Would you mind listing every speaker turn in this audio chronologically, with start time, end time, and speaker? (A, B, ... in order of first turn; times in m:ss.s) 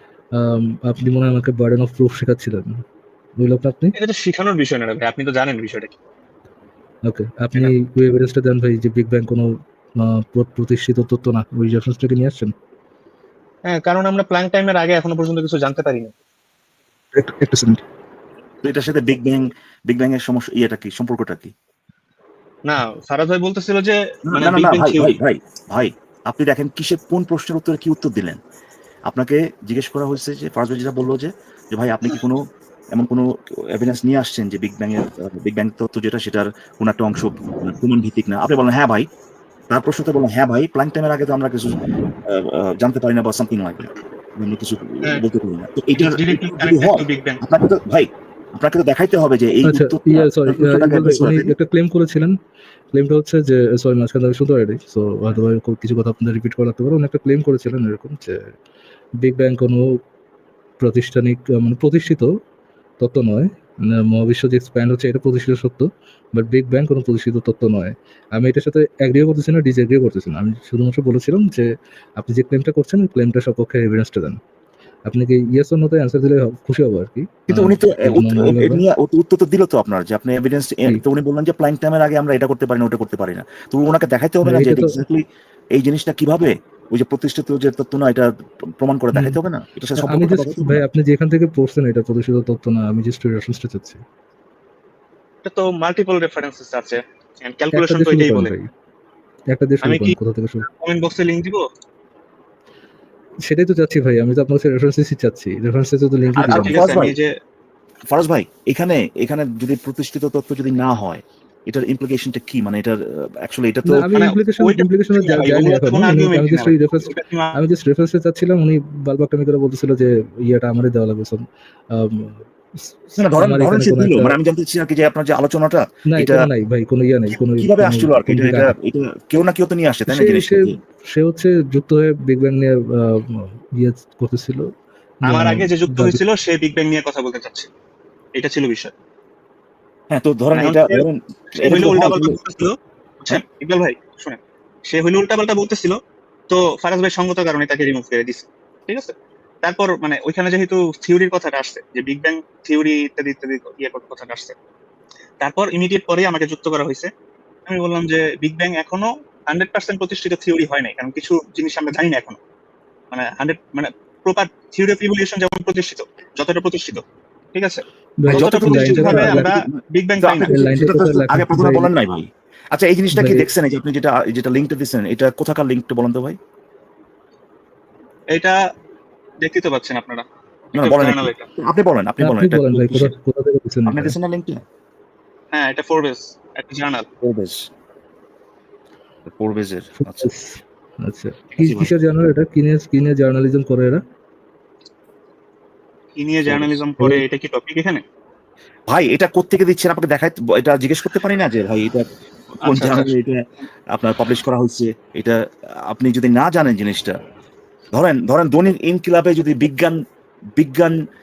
0:00.3-0:02.7 A
0:03.4-0:03.9 A
0:04.0-0:05.9 B
0:07.0-0:12.5 A
0:13.7-0:16.1 B
0:17.1-0:17.8 A
0:18.6-0:21.5 C
0:22.7-0:25.1 B
0:24.3-0:28.4 C
0:29.1-0:32.4 C
0:32.9-0:39.1 C
0:39.7-0:51.5 C
0:46.0-0:47.4 B
0:49.6-0:52.3 A
0:52.9-0:58.4 A
0:59.2-0:59.8 A
1:00.8-1:02.3 A
1:03.0-1:14.4 A
1:15.1-1:18.8 A
1:17.5-1:30.8 C
1:24.4-1:25.0 A
1:30.0-1:34.0 A
1:35.4-1:38.5 B
1:37.7-1:38.7 A
1:39.5-1:40.7 A
1:39.8-1:40.1 B
1:40.7-1:41.6 B
1:43.4-1:46.9 A
1:46.4-1:47.3 B
1:46.4-1:47.1 C
1:48.1-1:54.2 C
1:53.9-2:04.4 A
1:54.1-1:57.6 B
2:03.2-2:06.5 C
2:06.1-2:08.7 A
2:07.3-2:10.8 C
2:10.1-2:14.7 A
2:15.2-2:16.2 A
2:15.3-2:17.7 B
2:18.4-2:18.9 B
2:20.1-2:22.6 C
2:20.5-2:21.0 B
2:21.6-2:26.0 B
2:26.5-2:34.5 B
2:35.4-2:37.1 B
2:37.7-2:42.4 B
2:43.1-2:47.0 B
2:47.5-2:50.5 B
2:48.2-2:49.5 A
2:48.3-2:56.4 C
2:50.5-2:51.9 A
2:53.1-2:53.5 A
2:59.4-3:00.2 B
3:00.7-3:03.1 C
3:00.8-3:01.4 B
3:02.2-3:04.2 A
3:03.9-3:04.6 C
3:05.5-3:07.0 B
3:07.2-3:07.7 C
3:09.2-3:10.3 C
3:10.0-3:14.0 A
3:11.6-3:11.9 C
3:16.2-3:18.0 B
3:16.5-3:16.8 C
3:18.9-3:22.0 C
3:22.6-3:23.4 C
3:22.7-3:23.1 B
3:23.9-3:25.4 C
3:25.9-3:27.1 C
3:27.9-3:30.0 C
3:30.6-3:31.0 C